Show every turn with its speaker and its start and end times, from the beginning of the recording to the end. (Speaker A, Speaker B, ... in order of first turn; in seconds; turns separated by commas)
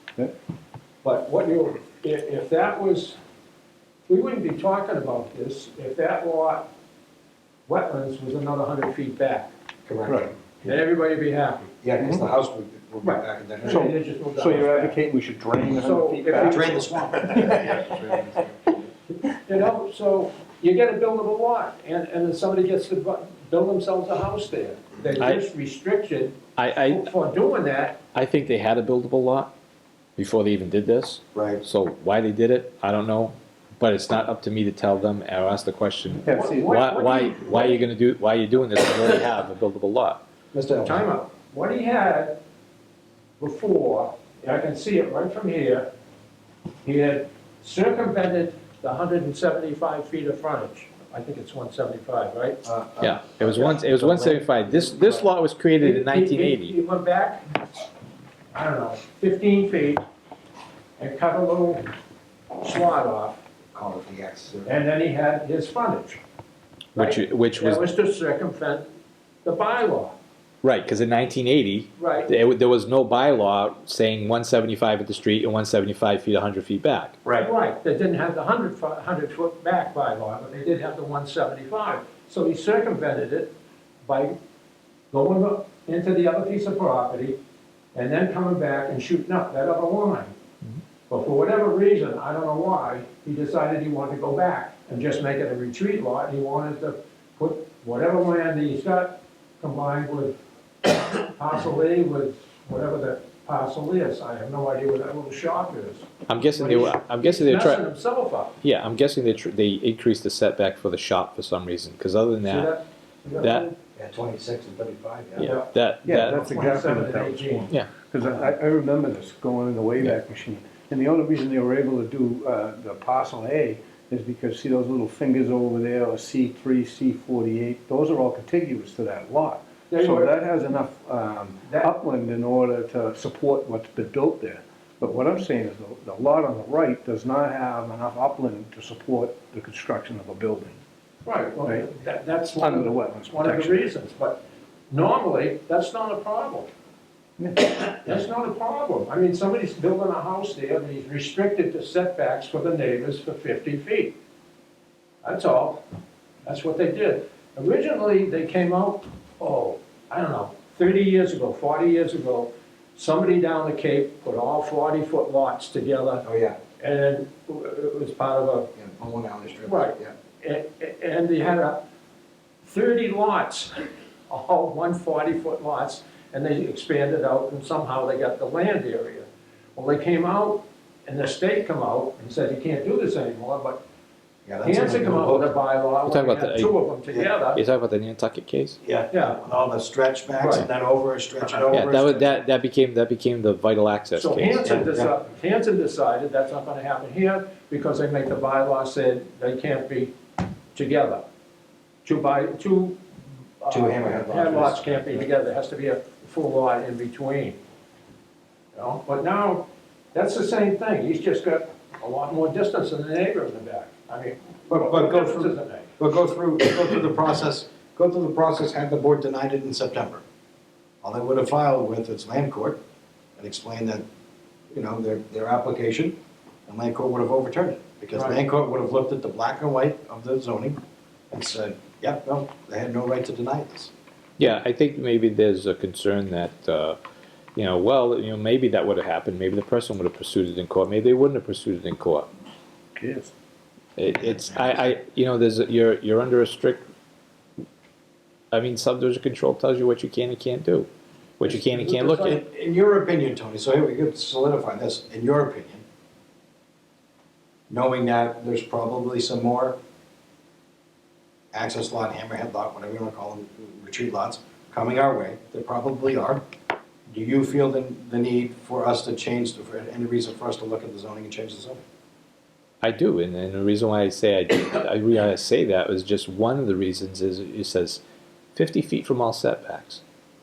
Speaker A: 1.0-3.2, Speaker A: 4.1-6.7, Speaker A: 7.7-9.5, Speaker B: 9.9-10.8, Speaker C: 10.1-10.3, Speaker A: 10.6-11.7, Speaker B: 11.8-13.9, Speaker A: 13.0-15.0, Speaker C: 13.7-18.4, Speaker A: 15.8-17.0, Speaker B: 16.4-18.4, Speaker A: 19.2-28.0, Speaker D: 25.2-25.4, Speaker D: 26.6-27.1, Speaker D: 28.1-29.5, Speaker D: 30.2-40.2, Speaker B: 31.3-31.6, Speaker C: 36.2-36.7, Speaker A: 36.3-37.8, Speaker B: 40.5-41.0, Speaker A: 40.9-42.4, Speaker A: 43.4-45.9, Speaker A: 46.8-52.6, Speaker B: 52.6-55.2, Speaker D: 53.0-56.8, Speaker A: 55.8-57.4, Speaker A: 58.5-60.0, Speaker A: 61.0-61.9, Speaker A: 62.6-63.4, Speaker B: 63.7-64.7, Speaker A: 64.7-66.2, Speaker D: 67.0-67.9, Speaker A: 67.0-68.9, Speaker A: 69.5-70.2, Speaker D: 70.6-77.3, Speaker A: 72.0-72.3, Speaker A: 77.4-83.5, Speaker A: 84.0-84.4, Speaker A: 85.1-87.4, Speaker A: 87.9-90.3, Speaker A: 91.1-108.6, Speaker D: 106.3-107.9, Speaker D: 108.6-112.8, Speaker A: 112.4-113.8, Speaker D: 113.4-113.7, Speaker B: 114.0-115.5, Speaker D: 115.4-116.5, Speaker A: 115.4-117.7, Speaker C: 116.0-140.8, Speaker A: 129.9-130.3, Speaker A: 141.2-146.7, Speaker C: 142.6-143.9, Speaker C: 147.4-147.7, Speaker A: 147.8-154.2, Speaker A: 155.2-155.8, Speaker A: 156.4-166.2, Speaker B: 166.2-166.6, Speaker A: 166.8-168.7, Speaker B: 168.8-170.1, Speaker A: 169.6-171.8, Speaker A: 172.6-183.8, Speaker B: 184.5-185.5, Speaker A: 184.6-187.6, Speaker D: 186.1-186.8, Speaker D: 187.6-188.8, Speaker B: 188.8-192.4, Speaker A: 189.1-189.4, Speaker A: 190.4-190.7, Speaker D: 191.7-194.7, Speaker A: 194.2-200.2, Speaker B: 194.7-195.1, Speaker A: 200.7-201.2, Speaker A: 202.1-203.0, Speaker A: 203.6-207.6, Speaker B: 203.7-205.3, Speaker A: 208.8-215.9, Speaker B: 214.7-220.2, Speaker B: 221.0-222.8, Speaker B: 223.4-224.0, Speaker B: 224.7-226.2, Speaker B: 226.7-230.8, Speaker A: 228.1-228.4, Speaker B: 231.3-233.9, Speaker D: 234.4-237.0, Speaker D: 237.6-242.3, Speaker C: 243.0-243.3, Speaker D: 244.0-246.8, Speaker B: 244.2-244.8, Speaker D: 248.5-250.9, Speaker D: 251.4-252.4, Speaker A: 251.4-252.4, Speaker B: 252.2-255.8, Speaker B: 257.7-259.8, Speaker B: 261.5-266.4, Speaker B: 267.1-271.8, Speaker D: 272.8-278.0, Speaker D: 278.6-280.0